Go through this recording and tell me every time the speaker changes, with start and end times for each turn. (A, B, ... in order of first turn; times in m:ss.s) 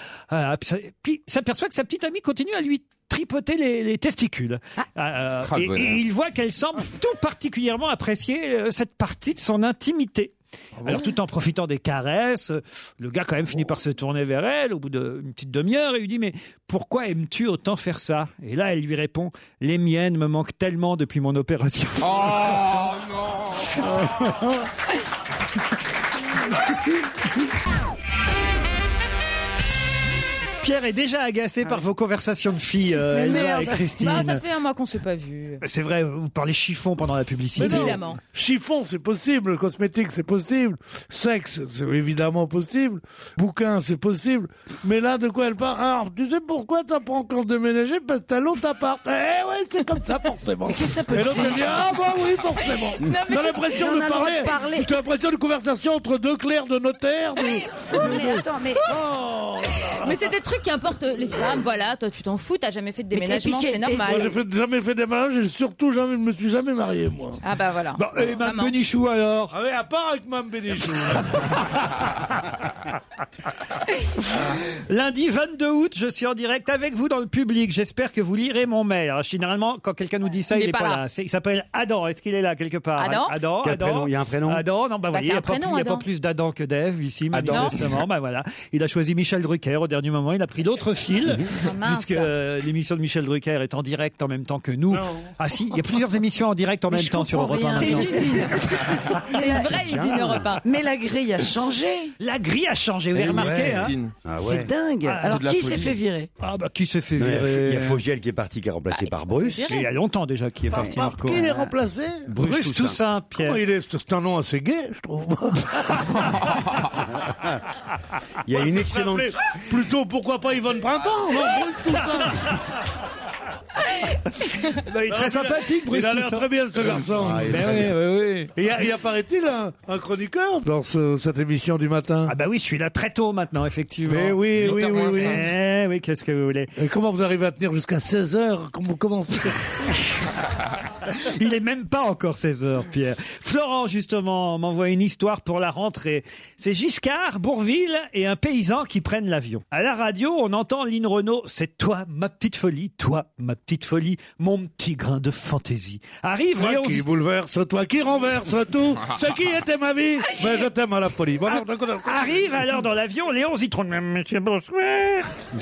0:00.3-0:10.3 A
0:05.4-0:06.0 B
0:10.8-0:11.1 C
0:10.8-0:22.5 A
0:22.0-0:24.0 B
0:30.6-0:34.4 A
0:33.0-0:34.1 D
0:34.0-0:35.6 E
0:35.6-0:38.0 A
0:37.6-1:00.3 C
0:37.6-0:38.2 E
0:50.6-0:52.0 D
0:53.0-0:53.8 E
0:53.7-0:54.9 D
0:57.9-0:59.0 D
1:00.0-1:04.3 E
1:03.1-1:04.4 D
1:04.1-1:07.4 C
1:07.4-1:08.8 E
1:08.0-1:09.5 A
1:09.5-1:11.6 C
1:11.4-1:11.9 A
1:14.2-1:39.4 A
1:20.5-1:21.0 E
1:23.0-1:23.4 E
1:23.6-1:24.6 F
1:25.1-1:26.1 E
1:27.3-1:27.8 F
1:27.4-1:27.8 E
1:31.2-1:31.5 F
1:31.5-1:32.3 E
1:34.9-1:35.3 C
1:36.9-1:42.2 D
1:37.8-1:38.7 E
1:39.2-1:40.6 E
1:39.7-1:40.5 F
1:42.2-1:44.0 A
1:43.1-1:44.2 B
1:43.3-1:44.7 F
1:44.4-1:46.3 D
1:45.0-1:45.4 A
1:45.3-1:45.9 B
1:46.4-1:48.0 A
1:47.2-1:49.7 F
1:48.9-1:49.9 E
1:49.7-1:51.5 A
1:50.7-1:52.4 C
1:51.4-1:51.7 D
1:52.3-1:53.0 F
1:52.4-1:53.6 A
1:53.4-1:56.5 C
1:57.3-1:57.6 F
1:58.4-1:59.3 F
1:58.6-2:02.6 C
2:02.3-2:02.6 A
2:04.3-2:06.5 A
2:05.1-2:07.8 C
2:07.1-2:07.9 F
2:07.4-2:08.6 A
2:08.6-2:12.3 C
2:12.3-2:16.7 A
2:14.1-2:15.5 C
2:14.6-2:15.4 B
2:16.8-2:19.9 C
2:21.1-2:37.0 A
2:36.6-2:42.5 C
2:41.6-2:45.4 A